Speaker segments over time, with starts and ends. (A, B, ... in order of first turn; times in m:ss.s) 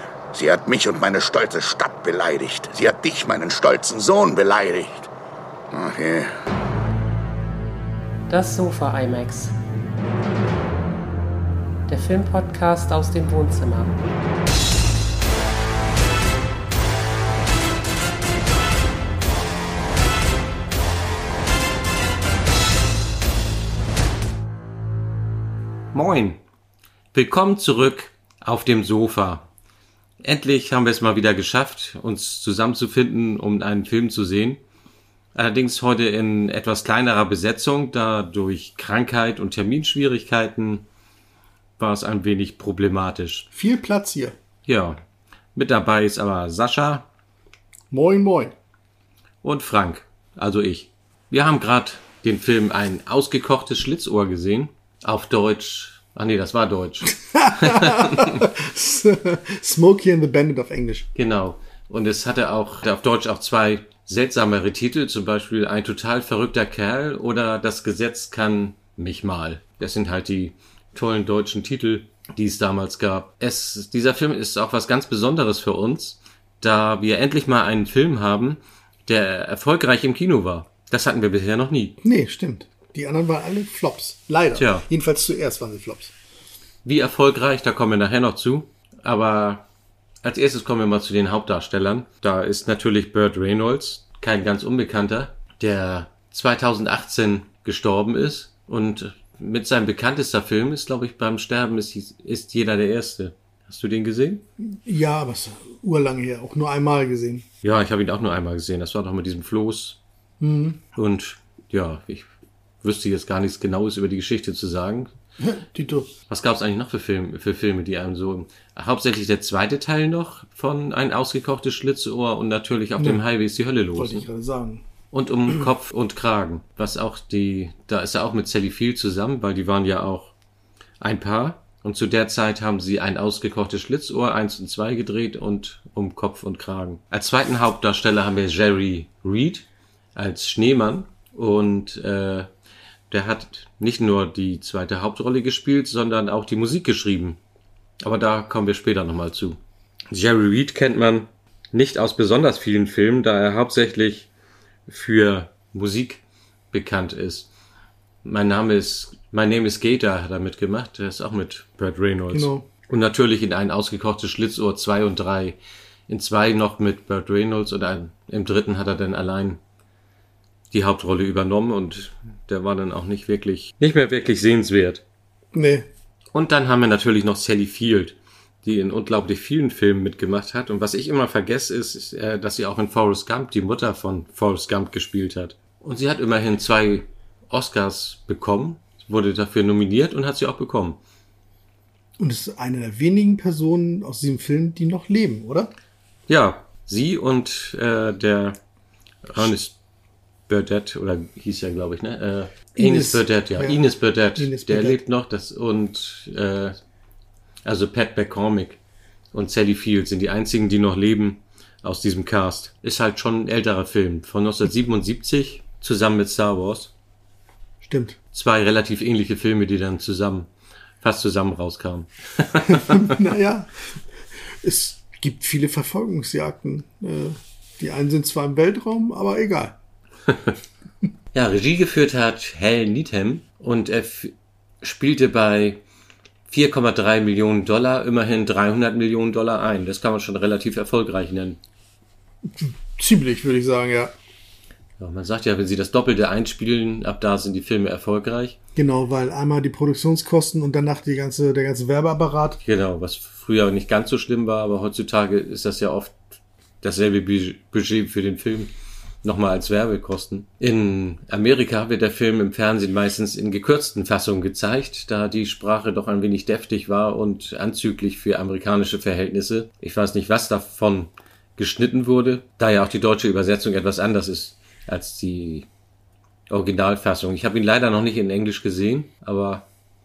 0:00.3-0:05.1 A
0:05.7-0:06.3 A
0:08.3-0:09.6 B
0:11.9-0:14.0 B
0:25.9-0:26.4 C
0:27.1-0:29.5 C
0:30.2-0:34.6 C
0:35.4-0:40.8 C
0:41.8-0:43.5 C
0:43.5-0:44.4 D
0:44.7-0:45.0 C
0:45.6-0:47.1 C
0:47.9-0:48.6 D
0:49.4-0:58.5 C
0:57.3-1:01.1 D
1:01.2-1:22.0 C
1:22.0-1:26.1 D
1:24.5-1:24.9 C
1:26.8-1:29.7 C
1:30.2-1:44.4 C
1:44.6-1:47.5 D
1:47.6-1:50.0 C
1:50.4-1:50.8 D
1:51.0-1:52.3 C
1:52.8-1:55.1 C
1:55.4-1:56.1 D
1:56.3-2:04.2 C
2:03.0-2:03.2 D
2:04.0-2:04.8 D
2:05.1-2:10.3 C
2:11.0-2:22.5 C
2:23.1-2:27.4 C
2:28.0-2:29.6 C
2:30.1-2:34.3 C
2:34.9-2:37.5 C
2:38.2-2:45.6 C
2:42.3-2:42.7 D
2:46.1-2:49.6 C
2:50.7-2:55.0 C
2:55.5-2:55.9 D
2:56.3-3:11.0 C
3:12.2-3:15.7 D
3:16.3-3:18.6 C
3:19.2-3:19.8 C
3:20.5-3:26.8 C
3:22.8-3:25.0 D
3:27.7-3:28.8 C
3:29.3-3:36.9 C
3:37.8-3:38.2 D
3:38.3-3:40.5 C
3:41.0-3:43.2 C
3:42.7-3:43.7 D
3:44.6-3:49.8 D
3:50.3-3:50.6 C
3:51.3-3:55.8 C
3:56.5-4:01.6 C
4:02.4-4:04.1 D
4:05.0-4:08.6 C
4:08.8-4:12.6 D
4:12.6-4:16.2 C
4:16.8-4:18.7 C
4:19.2-4:35.7 C
4:36.5-4:39.7 C